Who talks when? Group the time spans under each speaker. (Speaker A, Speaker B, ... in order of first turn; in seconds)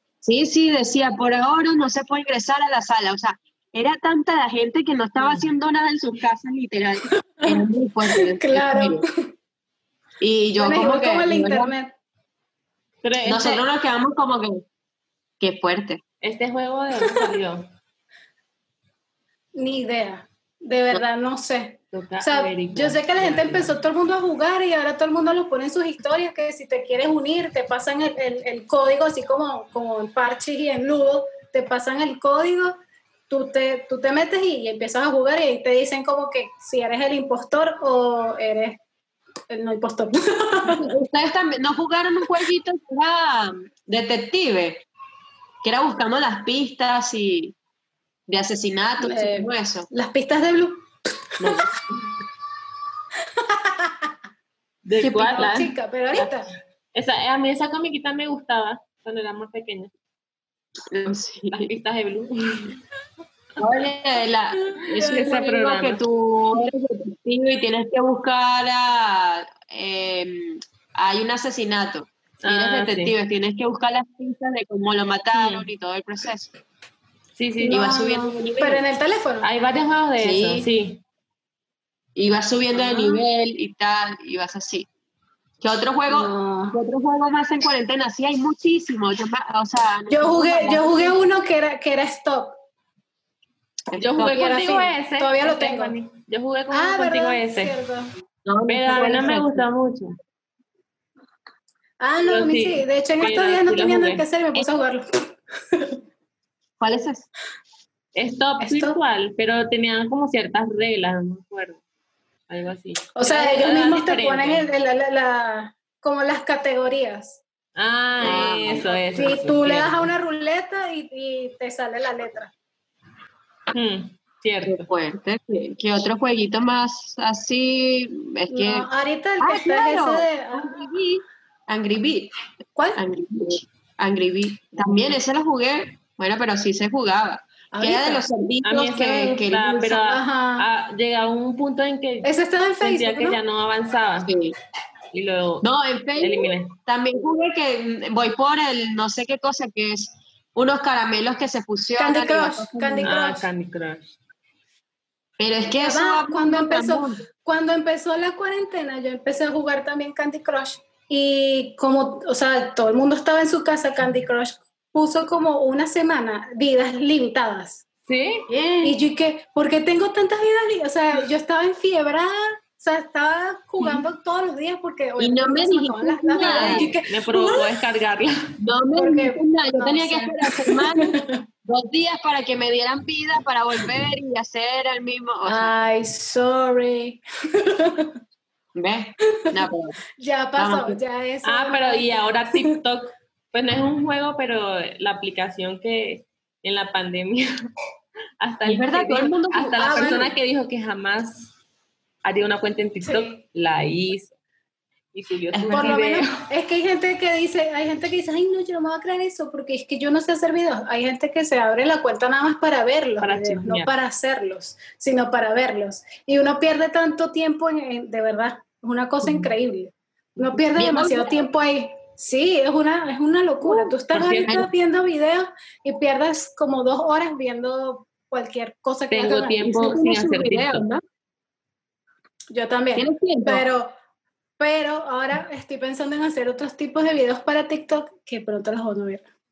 Speaker A: 0.2-9.0, 10.2-11.7, 13.2-14.6, 15.4-16.0, 40.6-44.8, 45.6-47.5, 48.3-49.9, 51.4-52.0, 60.9-61.7, 63.6-76.5, 77.7-78.8, 80.2-80.7, 82.1-84.9, 85.6-91.2, 93.9-94.4, 98.5-99.7, 106.8-107.3, 118.2-118.8, 124.6-128.9, 129.4-132.3, 132.9-140.0, 144.2-144.5, 145.6-153.1, 155.4-157.2, 168.5-169.0, 175.2-176.9, 178.6-181.1, 181.7-185.7, 188.8-190.0, 190.6-191.0, 198.7-200.3, 205.5-205.9, 220.6-221.4, 223.6-224.7, 229.6-231.0, 232.9-233.7
Speaker B: 5.2-5.5, 13.0-13.6, 16.2-17.7, 21.9-23.8, 54.8-56.4, 56.9-59.9, 61.5-62.8, 65.0-66.0, 72.4-73.1, 75.3-75.7, 77.3-78.3, 79.4-81.0, 82.7-83.2, 93.9-97.7, 98.7-100.1, 102.2-104.6, 108.1-111.8, 112.5-114.7, 117.8-120.1, 123.7-124.9, 138.6-144.3, 145.1-145.7, 146.2-146.7, 153.0-154.1, 168.1-168.5, 176.3-178.5, 191.4-197.5, 198.4-201.5, 202.2-204.3, 205.1-206.4, 213.2-213.9, 224.1-224.6, 229.1-230.8
Speaker C: 8.1-9.1, 10.6-11.9, 19.6-32.7, 33.3-38.8, 39.5-40.8, 49.0-50.8, 53.5-53.9, 55.0-56.5, 77.6-79.5, 86.1-86.8, 90.1-92.5, 94.3-96.0, 96.7-98.1, 102.0-105.1, 108.6-109.0, 113.2-117.4, 118.7-122.5, 128.5-130.8, 132.7-133.0, 137.7-138.2, 139.9-140.6, 142.2-143.4, 152.0-153.5, 155.8-167.8, 168.8-177.7, 178.9-181.4, 185.4-188.1, 190.2-192.7, 199.7-200.3, 203.0-203.4, 205.7-229.6, 232.5-233.9, 234.6-239.2